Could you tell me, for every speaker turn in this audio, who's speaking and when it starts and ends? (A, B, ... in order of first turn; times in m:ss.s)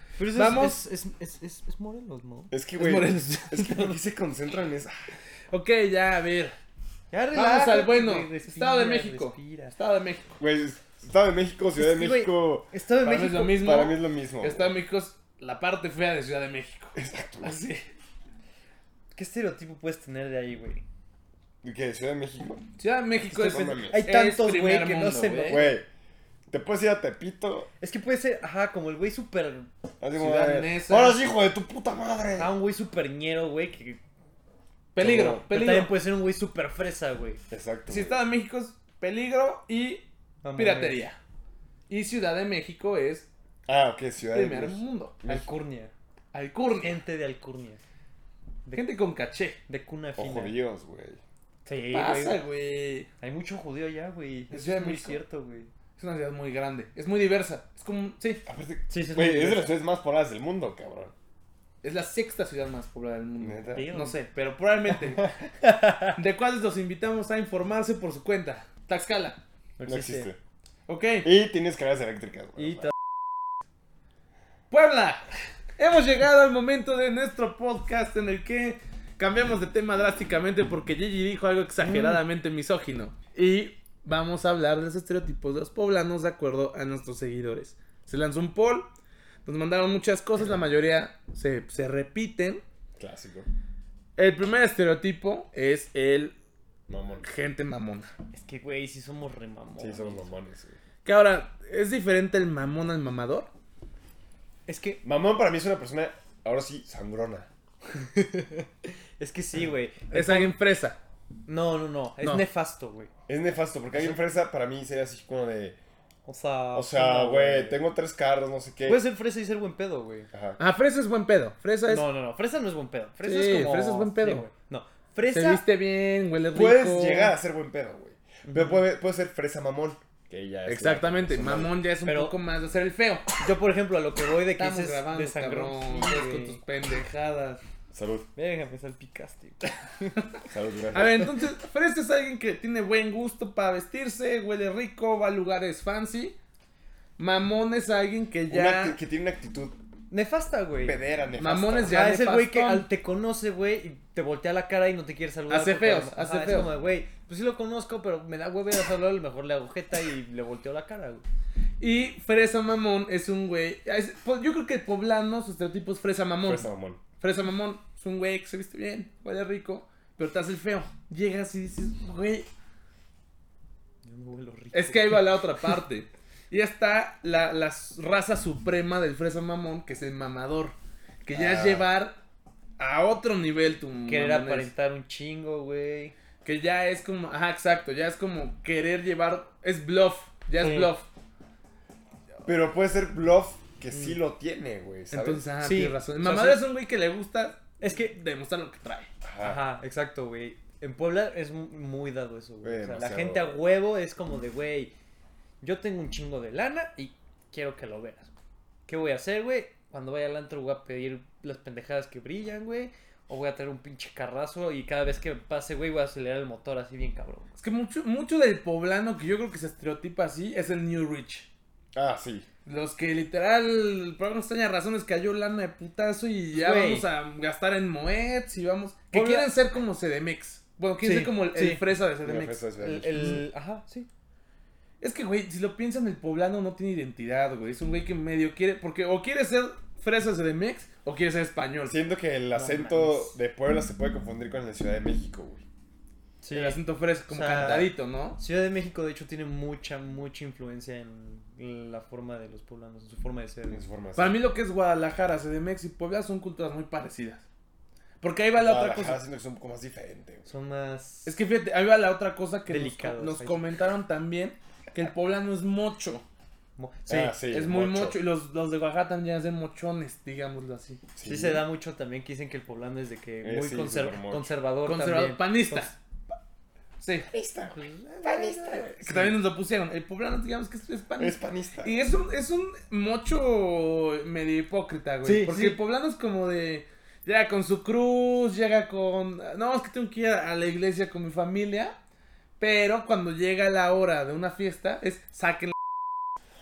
0:00.2-0:02.5 A
0:00.3-0:00.8 B
0:02.5-0:05.1 C
0:02.8-0:04.0 B
0:05.5-0:06.6 B
0:07.1-0:09.7 A
0:07.3-0:10.4 B
0:10.4-0:12.7 C
0:11.8-0:13.7 A
0:13.0-0:17.8 B
0:13.5-0:14.7 C
0:17.0-0:17.6 C
0:19.1-0:20.8 A
0:21.6-0:22.6 C
0:22.8-0:25.7 B
0:23.3-0:25.8 A
0:23.4-0:24.0 C
0:25.5-0:25.9 C
0:26.5-0:27.7 C
0:27.8-0:29.7 A
0:30.0-0:32.5 C
0:30.2-0:31.2 B
0:32.4-0:34.0 A
0:34.9-0:35.9 B
0:35.0-0:35.4 C
0:35.4-0:37.4 A
0:37.5-0:38.2 C
0:37.9-0:40.0 B
0:40.4-0:41.0 A
0:40.6-0:41.2 B
0:41.9-0:43.3 B
0:43.7-0:45.4 C
0:44.3-0:45.2 B
0:45.2-0:45.9 A
0:46.3-0:46.9 B
0:46.7-0:47.8 A
0:48.7-0:49.6 B
0:49.7-0:50.6 A
0:50.2-0:51.2 C
0:51.6-0:52.4 A
0:51.9-0:53.1 B
0:53.2-0:55.7 A
0:54.5-0:55.2 B
0:56.0-0:58.4 B
0:58.4-1:01.1 C
0:58.9-0:59.7 A
1:01.8-1:05.3 B
1:03.4-1:03.9 C
1:03.7-1:04.2 A
1:05.2-1:06.1 A
1:06.1-1:09.4 B
1:09.8-1:10.3 A
1:09.8-1:10.4 C
1:10.9-1:11.3 B
1:11.2-1:12.9 C
1:12.6-1:12.9 A
1:14.7-1:15.2 B
1:15.8-1:28.9 B
1:21.8-1:22.2 A
1:29.4-1:32.6 B
1:33.0-1:33.5 C
1:34.2-1:36.3 B
1:36.9-1:37.2 C
1:37.2-1:38.1 B
1:38.3-1:40.3 A
1:39.8-1:40.8 C
1:41.0-1:43.5 B
1:44.7-1:45.0 A
1:45.0-1:47.5 C
1:48.0-1:50.5 A
1:50.1-1:51.0 B
1:51.4-1:53.1 A
1:53.3-1:55.8 C
1:53.9-1:54.2 A
1:56.2-1:57.8 A
1:56.7-1:59.0 C
1:58.8-2:00.3 A
2:00.3-2:00.6 C
2:00.6-2:02.0 B
2:01.9-2:05.6 A
2:03.2-2:04.5 B
2:05.3-2:07.3 B
2:06.5-2:11.7 C
2:08.4-2:08.8 A
2:10.6-2:13.3 B
2:12.0-2:12.4 A
2:13.4-2:16.6 A
2:14.6-2:17.6 B
2:17.9-2:18.3 C
2:18.4-2:20.2 A
2:20.5-2:21.3 C
2:20.9-2:26.4 B
2:27.2-2:29.0 B
2:28.5-2:29.8 C
2:30.1-2:31.0 A
2:30.8-2:32.0 C
2:31.4-2:32.9 B
2:31.8-2:41.2 A
2:35.5-2:36.7 B
2:41.8-2:46.7 B
2:46.4-2:47.0 C
2:47.2-2:52.5 B
2:54.0-2:55.8 A
2:54.7-3:02.2 B
3:01.3-3:01.9 C
3:02.8-3:04.7 B
3:04.1-3:06.1 A
3:06.4-3:11.1 B
3:10.6-3:10.9 A
3:12.4-3:15.5 C
3:13.9-3:14.2 A
3:15.1-3:19.1 B
3:15.6-3:16.6 A
3:17.8-3:18.2 A
3:19.2-3:19.6 C
3:19.4-3:24.9 A
3:22.6-3:23.6 C
3:25.6-3:28.3 A
3:28.9-3:37.5 A
3:37.6-3:41.5 B
3:41.9-3:42.4 C
3:42.6-3:52.6 B
3:46.5-3:47.1 A
3:49.1-3:49.5 A
3:51.0-3:51.8 A
3:52.2-3:53.4 C
3:52.8-3:54.1 A
3:53.1-3:53.4 B
3:55.0-4:02.0 B
4:01.8-4:05.6 C
4:02.5-4:03.4 A
4:06.4-4:13.8 A
4:06.5-4:08.4 B
4:13.7-4:14.4 C
4:14.2-4:17.4 B
4:18.2-4:19.2 B
4:18.6-4:20.4 C
4:20.4-4:21.3 A
4:21.2-4:26.2 B
4:22.7-4:23.6 A
4:26.8-4:27.4 A
4:27.1-4:28.2 C
4:27.4-4:31.0 B
4:31.2-4:31.6 C
4:31.2-4:35.9 A
4:33.4-4:34.5 C
4:34.8-4:36.0 B
4:37.0-4:37.3 B
4:37.3-4:39.4 C
4:37.7-4:38.9 A
4:38.2-4:51.9 B
4:41.2-4:42.0 C
4:45.2-4:45.8 A
4:52.6-4:55.8 B